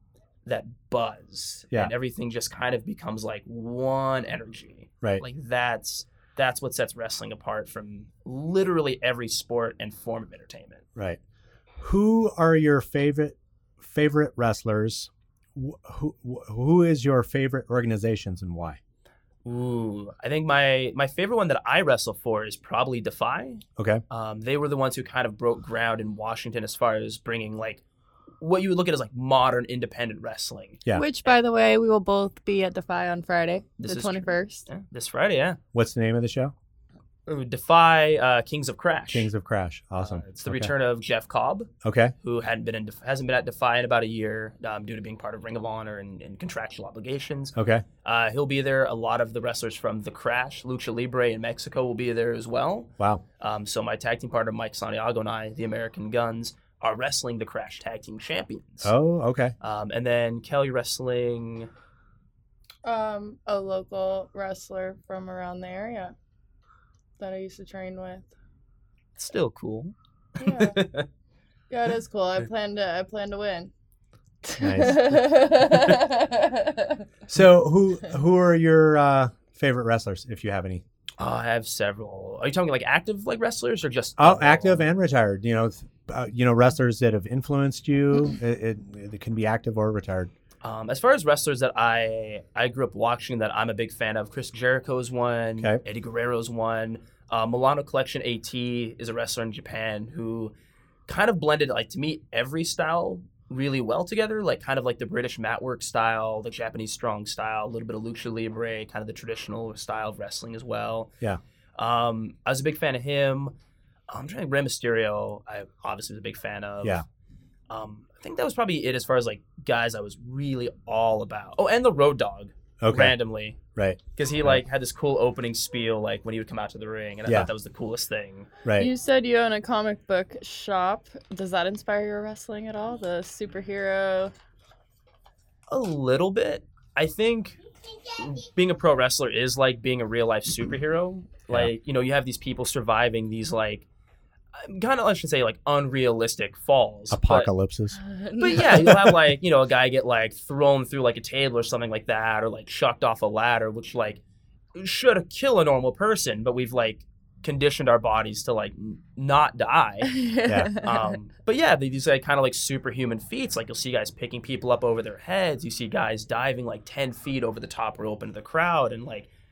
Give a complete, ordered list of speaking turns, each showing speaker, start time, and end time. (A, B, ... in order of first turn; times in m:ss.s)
0:00.4-0:10.8 A
0:11.8-0:18.8 B
0:19.4-0:27.8 A
0:23.8-0:24.0 B
0:28.4-0:30.8 A
0:30.9-0:34.7 C
0:33.8-0:35.6 A
0:35.7-0:36.5 B
0:37.3-0:39.3 A
0:39.1-0:40.7 B
0:40.0-0:41.7 A
0:41.8-0:42.1 B
0:42.2-0:58.9 A
0:47.5-0:47.8 B
0:58.8-0:59.5 B
0:59.6-1:01.7 A
1:02.8-1:06.1 C
1:07.2-1:08.3 C
1:09.2-1:11.1 A
1:10.4-1:10.8 C
1:11.7-1:13.7 C
1:14.4-1:17.0 C
1:14.6-1:15.1 B
1:17.3-1:20.8 B
1:21.2-1:24.9 A
1:24.2-1:30.3 B
1:30.6-1:40.5 A
1:41.1-1:51.1 A
1:51.8-1:53.5 A
1:54.1-1:57.0 A
1:57.7-2:03.6 A
2:02.8-2:03.1 B
2:03.7-2:04.6 B
2:04.2-2:08.5 A
2:08.6-2:08.9 B
2:08.8-2:14.3 C
2:15.7-2:17.6 A
2:18.1-2:23.8 A
2:24.5-2:27.5 A
2:27.1-2:28.0 B
2:28.1-2:29.0 C
2:28.4-2:34.2 A
2:28.6-2:29.2 B
2:34.8-2:40.1 A
2:40.0-2:41.2 C
2:40.7-2:49.3 A